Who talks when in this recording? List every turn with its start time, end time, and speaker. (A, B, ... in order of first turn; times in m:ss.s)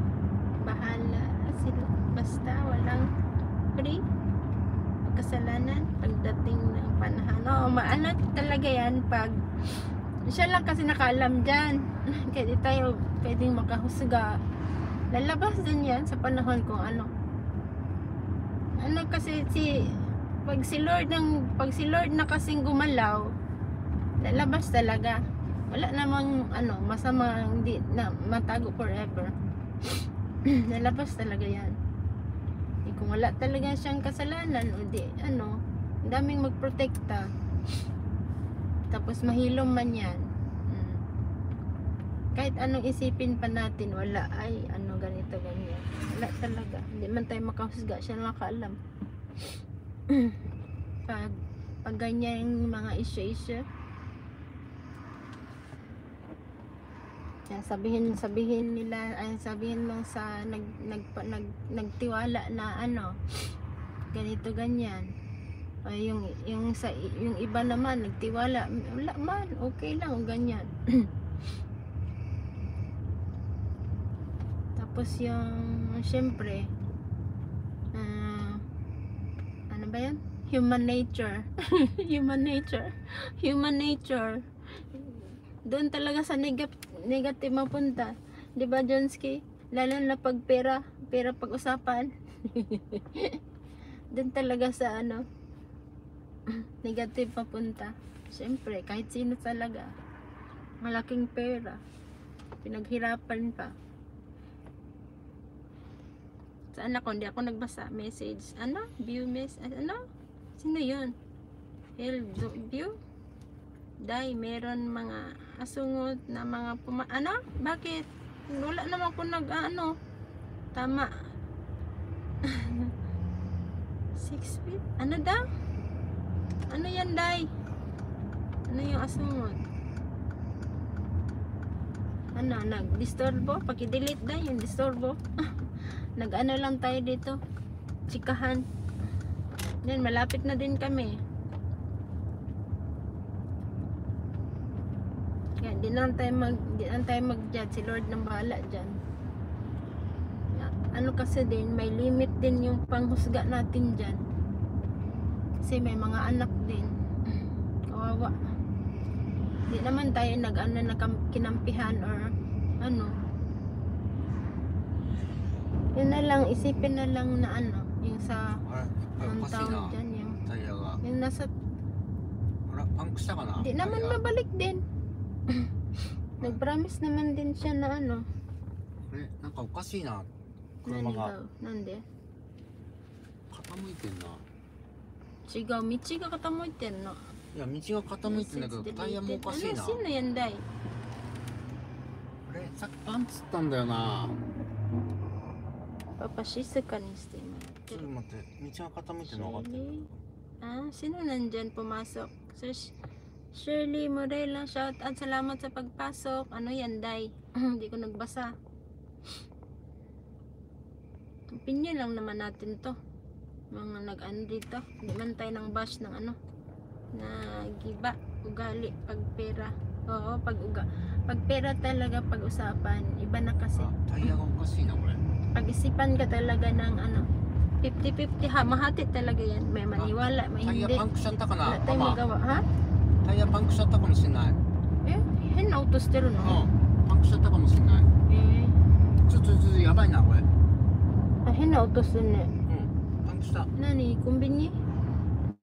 0:00.6-0:03.1 A
0:03.7-0:04.0 A
0:05.0-0:14.4 A
0:15.1-0:17.1 A
0:18.8-0:19.7 A
0:20.4-0:23.3 A
0:24.2-0:29.3 A
0:29.8-0:31.8 A
0:32.8-0:37.3 A
0:38.9-0:41.0 A
0:42.4-0:48.8 A
0:50.1-0:50.4 A
0:51.0-0:53.6 A
0:57.5-1:03.2 A
1:04.1-1:05.1 A
1:05.8-1:11.1 A
1:14.8-1:16.7 A
1:17.9-1:18.6 A
1:19.7-1:24.4 A
1:24.9-1:33.4 A
1:34.1-1:35.2 A
1:36.5-1:39.9 A
1:40.8-1:41.8 A
1:42.6-1:43.7 A
1:46.7-1:50.0 A
1:50.6-1:51.1 A
1:52.0-1:52.9 A
1:54.0-2:00.0 A
2:00.8-2:01.1 A
2:02.4-2:02.9 A
2:04.2-2:05.4 A
2:06.7-2:07.5 A
2:08.7-2:09.6 A
2:12.4-2:15.2 A
2:16.2-2:17.4 A
2:18.1-2:18.6 A
2:19.8-2:21.2 A
2:25.6-2:29.0 A
2:30.5-2:34.2 A
2:35.6-2:38.3 A
2:39.7-2:42.3 A
2:42.8-2:43.1 A
2:46.0-2:48.6 A
2:48.6-2:51.0 B
2:49.2-2:50.4 A
2:51.0-2:51.5 A
2:52.7-2:54.2 B
2:53.6-2:54.8 A
2:56.4-2:58.2 A
2:59.1-3:00.3 B
3:00.8-3:01.3 B
3:00.8-3:02.0 A
3:03.5-3:04.4 B
3:05.5-3:07.2 A
3:07.5-3:10.0 B
3:08.2-3:10.6 A
3:12.4-3:14.4 B
3:16.2-3:18.0 A
3:17.9-3:20.2 B
3:19.3-3:20.0 A
3:20.6-3:22.9 A
3:23.5-3:28.5 A
3:31.5-3:33.0 A
3:33.7-3:36.4 A
3:37.1-3:43.9 A
3:43.8-3:45.2 B
3:45.5-3:47.2 A
3:47.8-3:52.6 A
3:50.0-3:52.2 B
3:53.2-3:54.6 B
3:55.0-3:56.6 A
3:56.4-3:58.1 B
3:58.3-3:58.8 A
3:59.3-4:00.5 B
4:01.4-4:02.5 A
4:02.7-4:03.7 B
4:03.8-4:04.8 A